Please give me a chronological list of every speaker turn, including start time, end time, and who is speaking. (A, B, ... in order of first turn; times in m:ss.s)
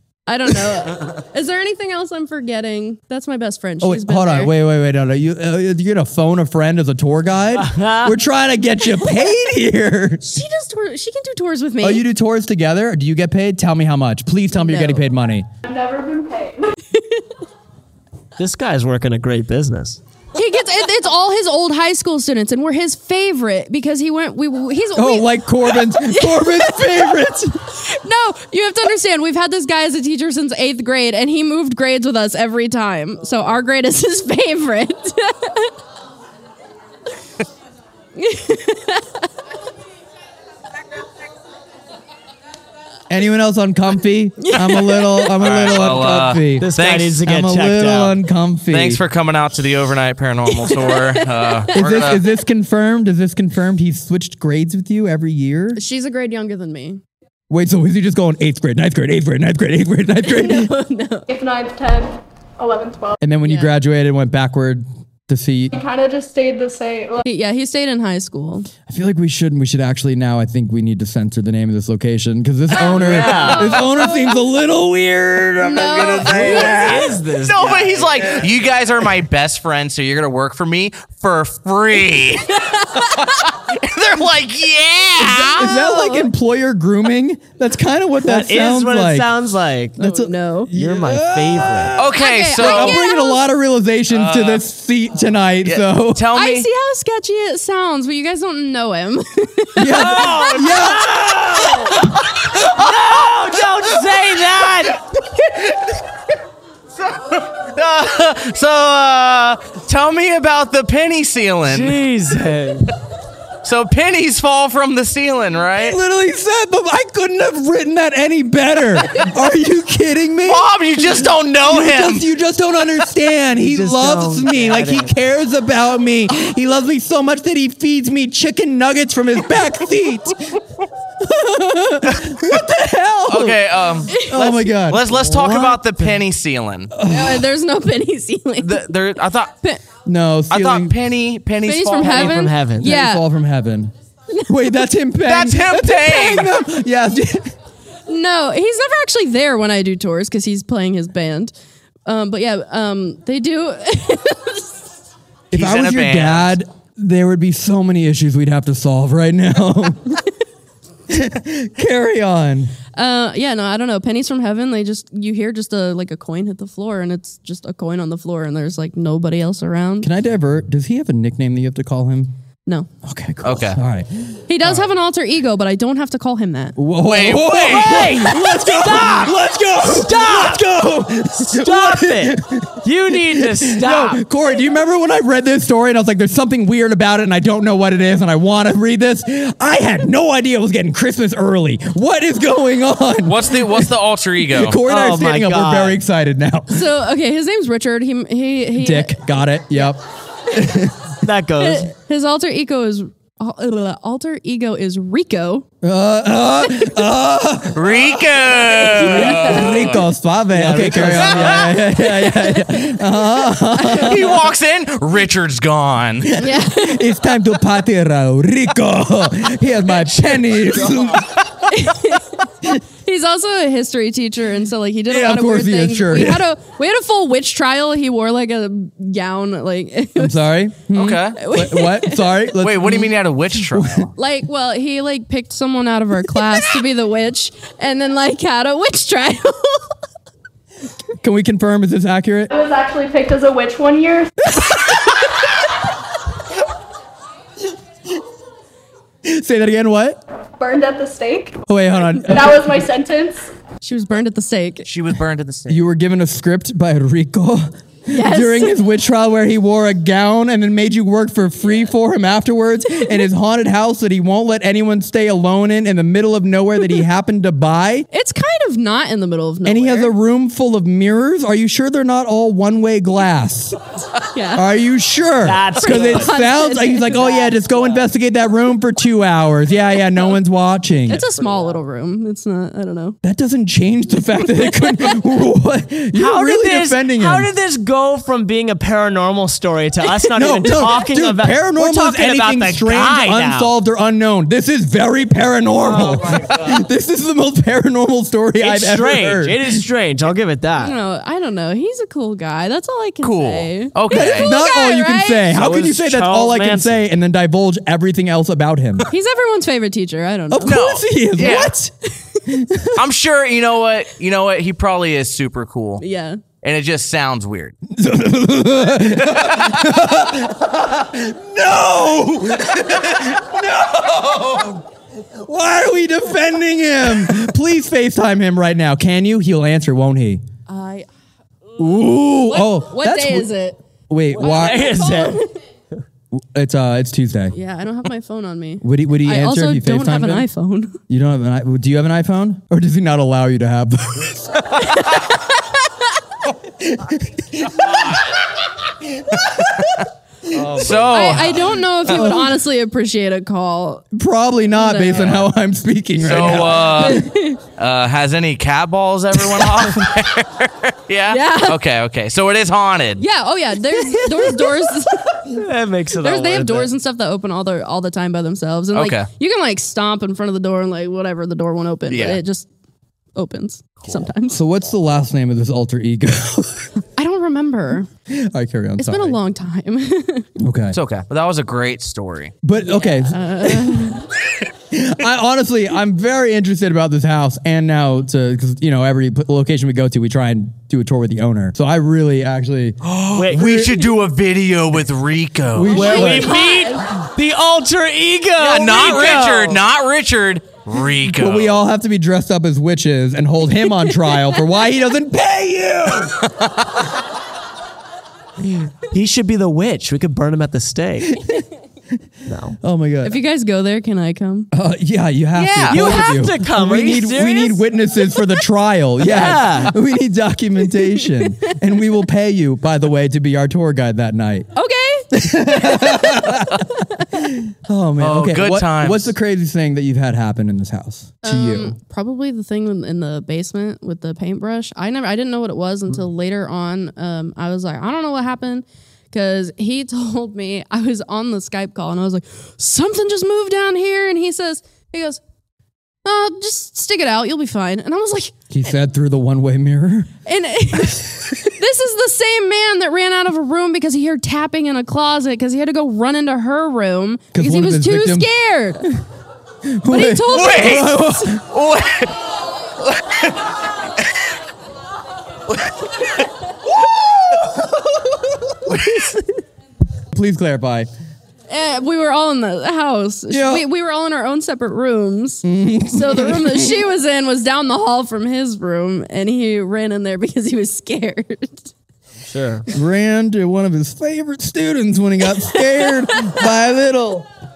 0:00.3-0:04.5 A
0:03.8-0:10.4 B
0:07.5-0:08.2 C
0:10.3-0:12.0 A
0:11.8-0:15.5 B
0:14.5-0:15.1 A
0:15.6-0:16.8 D
0:16.9-0:17.2 A
0:18.4-0:20.0 C
0:20.4-0:27.3 A
0:25.0-0:27.6 B
0:27.8-0:35.7 A
0:38.2-0:39.1 A
0:43.1-0:46.7 B
0:44.4-0:45.3 A
0:45.4-0:47.2 E
0:46.6-0:48.2 C
0:47.2-0:49.0 B
0:48.7-0:52.2 E
0:50.6-0:52.1 A
0:51.8-0:55.8 B
0:55.8-0:57.0 A
0:57.5-1:00.7 B
1:00.2-1:01.3 A
1:01.3-1:03.2 D
1:03.2-1:05.7 B
1:03.4-1:03.7 A
1:05.7-1:07.3 D
1:07.2-1:08.7 A
1:08.9-1:17.2 B
1:12.7-1:13.9 C
1:13.1-1:14.2 A
1:15.6-1:17.1 A
1:16.2-1:18.5 C
1:17.4-1:25.7 E
1:22.6-1:23.0 A
1:25.2-1:26.3 A
1:25.6-1:29.3 B
1:28.2-1:30.2 C
1:30.0-1:36.2 B
1:30.0-1:30.7 A
1:30.7-1:32.0 C
1:32.0-1:33.0 E
1:32.2-1:33.4 A
1:34.1-1:34.6 E
1:35.6-1:36.7 E
1:36.3-1:40.4 A
1:39.8-1:41.4 B
1:40.0-1:45.0 C
1:40.2-1:41.1 E
1:42.0-1:43.4 E
1:45.4-1:45.8 E
1:47.0-1:52.0 E
1:51.6-1:52.9 C
1:53.6-1:56.0 E
1:55.8-2:10.6 B
2:00.5-2:02.2 E
2:03.6-2:05.1 C
2:11.2-2:15.8 B
2:12.1-2:12.4 E
2:13.3-2:16.9 E
2:15.3-2:16.1 C
2:16.9-2:17.5 B
2:17.1-2:18.9 A
2:18.6-2:19.5 E
2:20.0-2:21.0 B
2:20.5-2:22.4 E
2:21.6-2:23.2 A
2:22.0-2:23.0 C
2:22.8-2:23.9 B
2:24.5-2:27.5 B
2:25.2-2:26.6 E
2:28.1-2:31.5 A
2:32.0-2:34.8 A
2:35.5-2:40.2 B
2:35.5-2:36.5 E
2:41.1-2:42.7 B
2:43.0-2:50.1 A
2:50.0-2:52.3 B
2:53.0-2:54.9 B
2:53.4-2:53.8 E
2:54.5-2:56.8 A
2:56.8-3:13.9 B
2:57.0-2:58.1 E
2:57.6-3:00.7 C
2:58.6-2:59.1 A
3:01.4-3:04.2 C
3:13.2-3:14.8 E
3:14.5-3:16.8 B
3:14.8-3:16.0 C
3:16.7-3:19.2 A
3:18.8-3:20.0 B
3:20.5-3:21.1 B
3:21.2-3:21.9 C
3:21.6-3:25.7 A
3:25.8-3:34.4 B
3:27.7-3:30.0 E
3:29.0-3:30.0 A
3:29.0-3:29.9 C
3:30.5-3:31.8 C
3:31.8-3:33.0 A
3:33.9-3:36.3 E
3:36.3-3:41.3 B
3:36.4-3:37.1 A
3:40.8-3:41.1 E
3:41.7-3:42.5 A
3:43.0-3:50.5 A
3:45.1-3:46.4 B
3:50.2-3:54.1 B
3:50.9-3:51.4 E
3:51.4-3:52.4 A
3:52.6-3:54.1 E
3:54.2-3:59.9 A
4:01.2-4:02.5 B
4:02.5-4:04.5 D
4:09.2-4:10.2 B
4:10.6-4:11.6 D
4:11.7-4:12.8 B
4:12.3-4:13.5 D
4:13.8-4:14.9 A
4:14.9-4:15.8 E
4:15.7-4:28.1 B
4:18.1-4:18.8 A
4:28.1-4:30.1 A
4:29.6-4:33.8 B
4:34.3-4:34.6 A
4:34.6-4:41.2 B
4:35.4-4:36.4 C
4:35.8-4:37.6 A
4:41.1-4:43.2 A
4:43.2-4:47.5 B
4:44.5-4:45.2 A
4:46.1-4:53.8 C
4:50.4-4:59.8 B
4:55.8-4:56.8 C
4:58.6-5:01.0 C
5:00.8-5:05.5 A
5:03.2-5:04.5 E
5:04.1-5:09.1 B
5:05.5-5:07.0 C
5:09.1-5:11.7 A
5:10.5-5:11.9 B
5:10.6-5:11.7 E
5:12.5-5:13.0 B
5:13.0-5:16.0 E
5:16.0-5:16.4 A
5:16.6-5:17.8 E
5:17.9-5:24.8 B
5:19.3-5:20.2 E
5:25.4-5:30.4 B
5:30.7-5:31.1 A
5:31.8-5:33.5 B
5:32.5-5:33.8 A
5:34.1-5:34.9 B
5:34.4-5:35.4 C
5:34.4-5:35.6 A
5:36.3-5:37.5 B
5:37.5-5:41.0 A
5:38.8-5:40.5 B
5:41.1-5:44.6 B
5:44.8-5:45.6 A
5:46.8-5:48.1 B
5:49.2-5:50.0 B
5:49.5-5:50.0 E
5:50.6-5:52.3 E
5:50.6-5:50.9 B
5:50.6-5:51.1 C
5:51.1-5:54.1 A
5:52.1-5:52.6 B
5:54.1-5:57.2 B
5:54.7-5:55.5 A
5:56.2-6:03.2 E
5:56.8-5:57.6 A
6:01.3-6:01.8 A
6:03.2-6:05.6 A
6:04.3-6:04.6 C
6:05.5-6:06.9 C
6:06.2-6:12.7 A
6:08.9-6:09.3 E
6:12.1-6:12.4 E
6:13.4-6:14.6 A
6:14.5-6:16.9 B
6:17.2-6:18.1 A
6:18.3-6:19.4 B
6:19.0-6:20.5 A
6:20.6-6:21.0 B
6:20.9-6:22.6 E
6:22.6-6:24.2 B
6:22.8-6:24.2 A
6:24.9-6:33.0 B
6:33.0-6:36.1 E
6:33.4-6:33.8 C
6:33.5-6:33.8 B
6:35.7-6:36.6 B
6:35.9-6:39.8 C
6:36.0-6:37.0 A
6:38.6-6:41.8 E
6:41.3-6:46.4 B
6:44.0-6:44.6 A
6:46.4-6:46.9 E
6:48.6-6:51.4 C
6:52.5-6:52.8 C
6:52.8-6:53.4 B
6:53.2-6:54.7 A
6:54.7-7:04.7 B
6:55.6-6:56.2 E
6:55.9-6:57.8 C
6:59.2-7:00.0 C
7:01.0-7:01.5 A
7:04.8-7:07.2 A
7:05.3-7:06.8 B
7:07.4-7:11.9 B
7:08.2-7:09.4 E
7:11.4-7:25.4 A
7:26.2-7:28.6 A
7:28.7-7:30.3 B
7:30.4-7:39.0 A
7:37.5-7:38.5 B
7:39.9-7:41.6 B
7:40.1-7:41.5 A
7:40.5-7:42.3 E
7:43.1-7:43.6 E
7:47.5-7:47.8 B
7:48.9-7:49.4 B
7:48.9-7:49.3 E
7:50.3-7:51.1 B
7:51.7-8:01.9 A
7:53.5-7:53.8 B
7:55.6-7:57.0 B
8:02.4-8:02.9 C
8:02.9-8:07.5 B
8:05.6-8:06.6 A